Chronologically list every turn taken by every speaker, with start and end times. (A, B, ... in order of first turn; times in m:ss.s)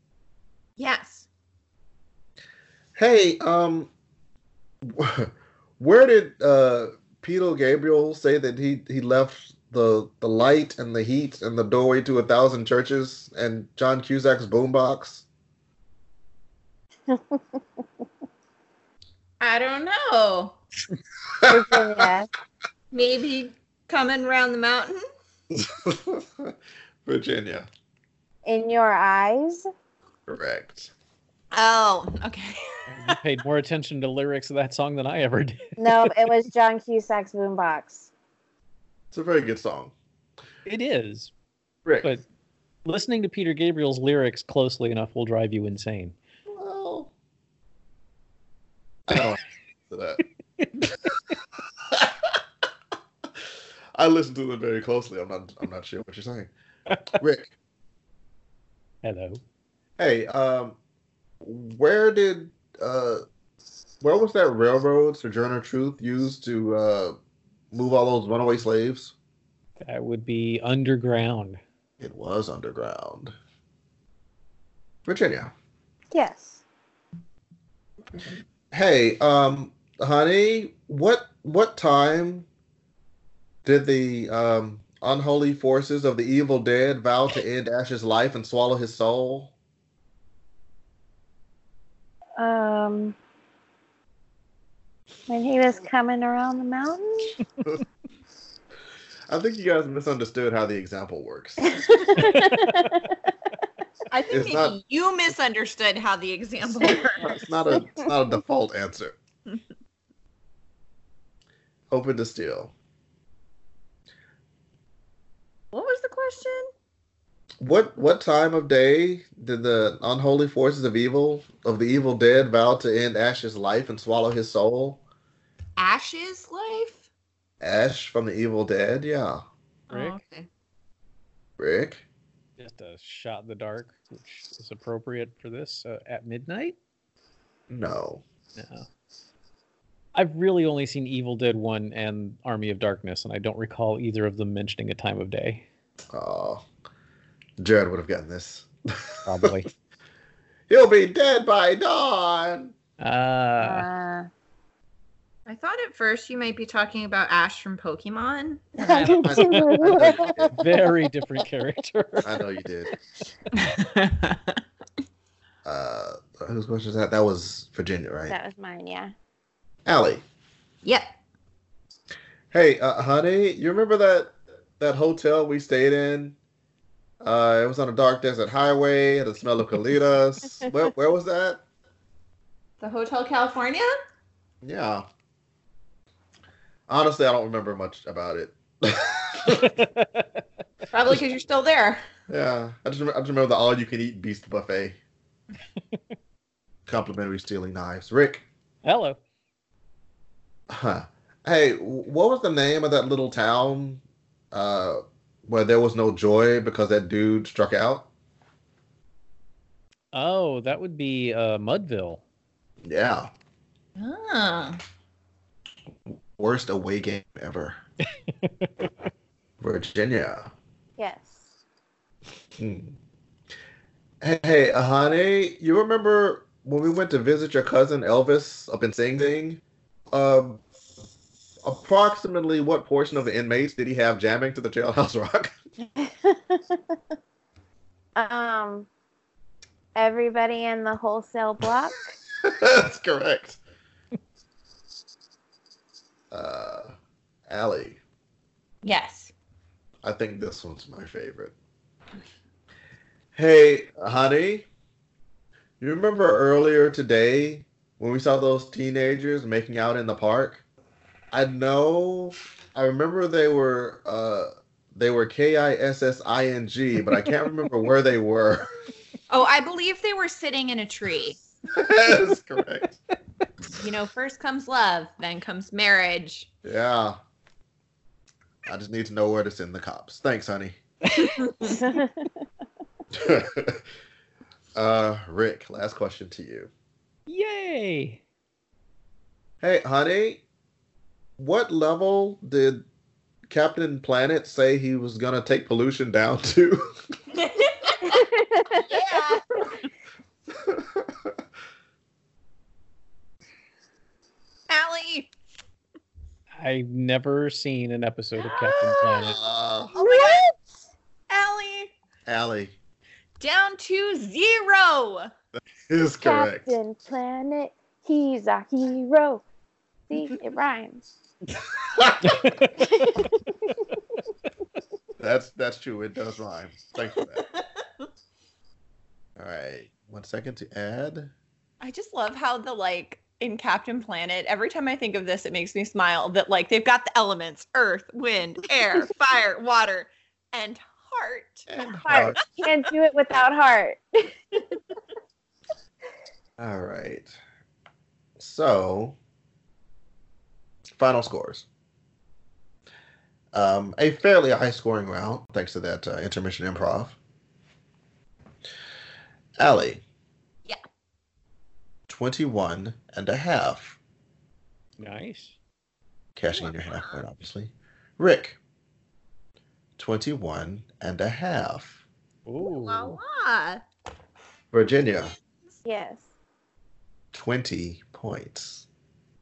0:00.8-0:01.3 A
0:03.0-0:03.9 B
0:04.8-0:15.2 B
0:17.1-0:17.6 C
0:19.4-0:20.6 A
0:21.4-0:22.0 B
0:21.4-0:22.3 C
0:22.9-0:25.0 A
0:25.5-0:27.7 B
0:28.4-0:29.6 C
0:30.3-0:30.9 B
0:31.5-0:32.6 A
0:32.9-0:36.1 D
0:35.8-0:38.1 C
0:39.1-0:39.9 B
0:40.6-0:41.3 D
0:41.8-0:42.1 B
0:42.8-0:46.2 D
0:46.5-0:47.1 B
0:49.1-0:50.2 B
0:50.6-0:51.1 D
0:51.9-0:52.4 B
0:53.9-0:56.5 B
0:57.1-0:57.5 B
0:59.0-0:59.4 D
1:00.0-1:00.8 B
1:01.4-1:03.2 B
1:04.0-1:07.2 B
1:07.7-1:09.1 B
1:09.8-1:11.6 D
1:12.0-1:13.3 B
1:15.0-1:15.5 B
1:16.1-1:16.6 C
1:18.7-1:22.5 B
1:23.6-1:29.5 B
1:32.4-1:33.2 C
1:35.3-1:37.4 C
1:39.3-1:41.9 B
1:41.6-1:43.1 C
1:42.2-1:42.8 D
1:44.1-1:47.3 A
1:44.3-1:44.8 B
1:47.2-1:49.2 B
1:51.9-1:52.7 B
1:55.7-1:56.7 A
1:57.6-2:05.0 B
2:05.8-2:07.1 A
2:07.6-2:09.4 B
2:09.9-2:10.5 A
2:09.9-2:10.2 D
2:11.6-2:12.0 B
2:12.6-2:16.8 D
2:17.7-2:18.2 B
2:18.6-2:18.9 D
2:20.1-2:25.6 D
2:26.1-2:26.6 B
2:27.6-2:29.6 B
2:29.2-2:29.7 D
2:30.7-2:32.7 B
2:33.0-2:33.9 D
2:33.6-2:34.3 C
2:35.4-2:38.7 A
2:38.8-2:42.3 D
2:38.8-2:40.5 C
2:38.9-2:40.6 B
2:42.2-2:42.9 B
2:43.6-2:44.4 A
2:45.6-2:48.4 B
2:48.3-2:49.1 C
2:49.8-2:50.2 B
2:52.5-2:56.4 B
2:57.2-3:01.6 B
3:02.8-3:03.9 A
3:04.6-3:05.0 B
3:06.9-3:09.7 B
3:09.5-3:10.4 D
3:10.9-3:12.0 A
3:12.3-3:15.0 B
3:16.9-3:18.4 B
3:18.8-3:19.2 D
3:20.7-3:28.1 B
3:30.1-3:32.2 D
3:32.8-3:33.3 B
3:34.0-3:34.8 A
3:36.4-3:37.8 B
3:38.4-3:38.9 D
3:39.6-3:40.5 B
3:41.0-3:41.5 C
3:42.6-3:43.0 B
3:44.2-3:50.6 B
3:51.6-3:55.5 B
3:56.0-3:57.0 C
3:58.2-3:58.9 C
3:59.9-4:02.0 C
4:02.4-4:03.6 B
4:06.3-4:06.9 B
4:07.5-4:08.0 B
4:08.8-4:09.3 A
4:10.0-4:11.5 B
4:13.3-4:14.6 B
4:15.8-4:20.6 B
4:21.3-4:28.7 B
4:29.3-4:31.4 A
4:31.7-4:33.0 B
4:33.8-4:36.5 A
4:36.6-4:37.2 B
4:38.6-4:40.8 B
4:41.1-4:41.7 D
4:41.4-4:41.7 A
4:41.7-4:42.3 C
4:43.1-4:43.8 B
4:44.7-4:46.7 B
4:47.3-4:48.2 D
4:49.6-4:50.4 B
4:51.4-4:52.8 B
4:53.5-4:56.9 B
4:57.4-4:58.2 A
4:58.1-4:58.8 C
4:58.8-4:59.7 A
5:00.5-5:01.3 B
5:04.7-5:05.3 A
5:06.6-5:09.4 D
5:09.2-5:10.0 B
5:09.9-5:10.5 A
5:10.0-5:10.5 C
5:11.3-5:11.9 A
5:12.2-5:12.8 B
5:13.4-5:15.3 A
5:15.9-5:16.7 B
5:16.2-5:19.4 C
5:20.1-5:21.0 C
5:21.9-5:22.3 B
5:22.2-5:23.3 D
5:25.2-5:27.5 B
5:29.4-5:31.3 B
5:31.8-5:41.6 A
5:41.7-5:42.4 B
5:42.0-5:44.0 C
5:46.6-5:47.3 B
5:48.4-5:49.2 B
5:51.0-5:51.6 B
5:53.5-5:57.2 B
5:59.6-6:00.0 B
6:02.1-6:04.0 B
6:05.0-6:05.6 D
6:06.4-6:08.6 B
6:06.6-6:07.2 A
6:10.0-6:12.0 B
6:12.4-6:13.2 D
6:12.6-6:13.8 A
6:14.7-6:15.3 B
6:15.8-6:16.3 C
6:17.3-6:18.8 B